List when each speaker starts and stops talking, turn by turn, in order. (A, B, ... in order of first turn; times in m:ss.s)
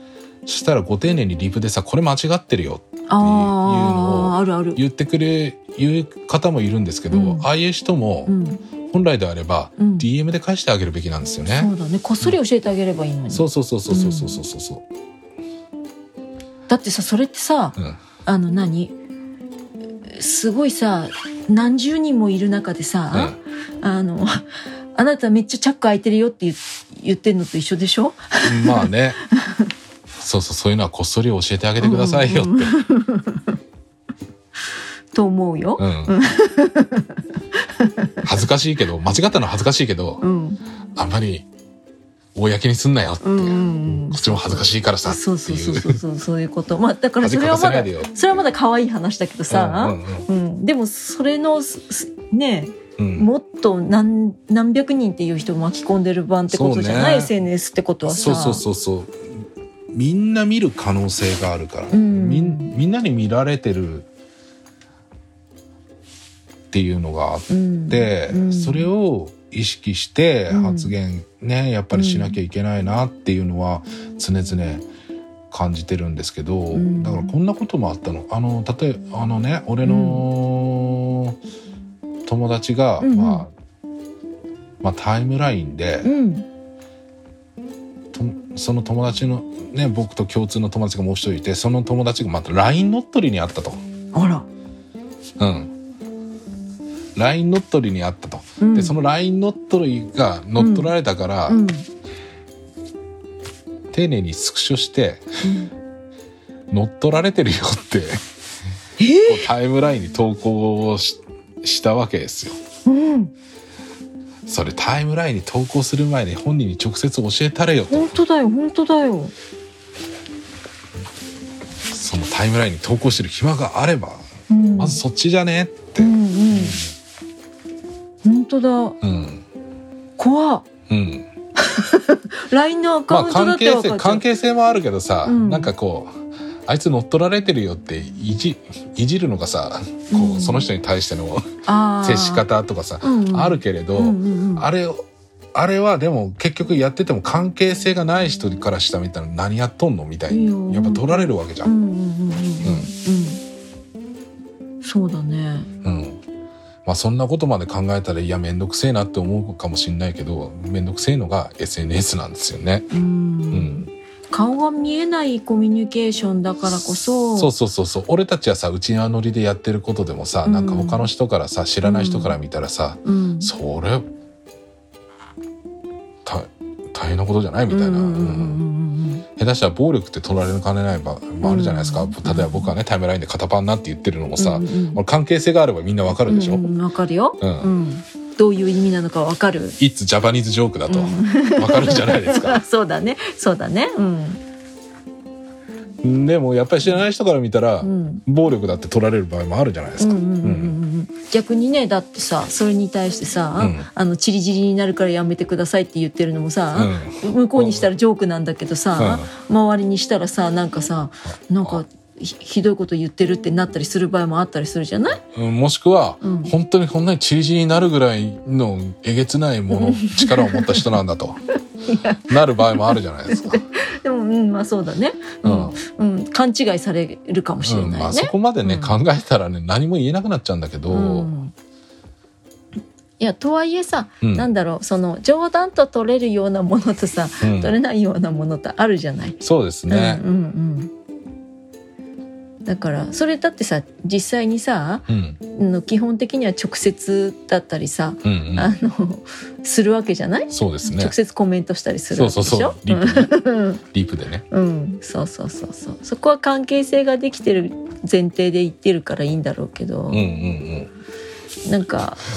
0:00.5-0:08.3 A
0:03.1-0:04.8 B
0:07.1-0:07.5 B
0:08.3-0:08.6 B
0:08.9-0:12.4 A
0:09.8-0:10.1 B
0:11.6-0:14.4 B
0:13.3-0:14.8 A
0:16.7-0:18.9 B
0:20.1-0:29.7 B
0:28.4-0:29.2 A
0:30.2-0:32.8 A
0:31.8-0:33.6 B
0:35.1-0:38.3 B
0:35.8-0:36.1 A
0:38.2-0:40.2 A
0:40.2-0:40.6 B
0:41.0-0:41.5 A
0:42.4-0:46.0 A
0:43.2-0:58.6 B
0:47.2-0:48.2 A
0:49.5-0:50.3 A
0:53.0-0:53.3 A
0:56.5-0:57.3 A
0:58.1-0:59.3 A
0:59.9-1:04.1 A
1:01.9-1:02.8 B
1:06.7-1:14.9 A
1:07.5-1:08.9 B
1:10.5-1:10.9 B
1:11.9-1:12.4 B
1:15.5-1:21.4 A
1:16.7-1:17.4 B
1:19.8-1:20.2 B
1:22.3-1:23.5 A
1:23.0-1:23.4 B
1:24.8-1:26.1 A
1:26.0-1:26.5 B
1:28.1-1:33.8 A
1:34.1-1:34.5 B
1:35.4-1:35.7 A
1:37.2-1:41.6 A
1:38.6-1:39.0 B
1:40.6-1:40.9 B
1:41.5-1:41.9 B
1:43.9-1:45.3 A
1:45.4-1:45.7 B
1:46.7-1:48.2 A
1:49.0-1:49.5 B
1:49.3-1:52.6 A
1:52.9-1:53.3 B
1:54.5-1:58.2 A
1:57.9-1:59.3 B
2:01.9-2:06.9 A
2:04.5-2:05.0 B
2:06.0-2:06.8 B
2:08.2-2:09.0 B
2:09.0-2:09.4 A
2:10.2-2:10.7 B
2:10.9-2:11.3 A
2:11.6-2:14.2 B
2:13.1-2:21.5 A
2:15.2-2:15.7 B
2:20.1-2:20.7 B
2:21.6-2:22.4 B
2:22.0-2:31.7 A
2:23.0-2:24.7 B
2:30.3-2:33.4 B
2:32.6-2:32.9 A
2:34.8-2:35.7 B
2:35.8-2:36.2 A
2:36.8-2:42.9 A
2:42.9-2:47.5 B
2:43.5-2:43.9 A
2:47.4-2:54.1 A
2:50.4-2:51.0 B
2:51.8-2:52.4 B
2:53.0-2:53.5 B
2:56.2-2:58.6 A
2:57.7-2:59.2 B
2:59.4-3:06.7 A
3:01.4-3:02.7 B
3:04.4-3:05.0 B
3:06.3-3:09.8 B
3:07.4-3:07.7 A
3:09.8-3:12.6 A
3:10.9-3:14.4 B
3:16.0-3:20.8 A
3:17.8-3:18.2 B
3:20.0-3:35.2 B
3:23.6-3:23.9 A
3:26.7-3:27.9 A
3:29.0-3:29.3 A
3:31.2-3:31.8 A
3:35.2-3:41.4 A
3:36.2-3:36.5 B
3:39.7-3:40.9 B
3:41.9-3:49.0 B
3:42.2-3:43.6 A
3:45.4-3:45.8 A
3:47.6-3:51.3 A
3:50.9-3:51.5 B
3:53.2-4:00.9 B
3:54.2-3:54.5 A
3:57.4-3:57.8 A
3:59.4-4:00.2 A
4:02.7-4:13.8 B
4:05.1-4:05.4 A
4:08.2-4:08.7 A
4:10.5-4:11.1 A
4:12.1-4:13.3 A
4:13.9-4:14.4 A
4:14.5-4:20.3 B
4:20.1-4:20.9 A
4:21.6-4:22.2 B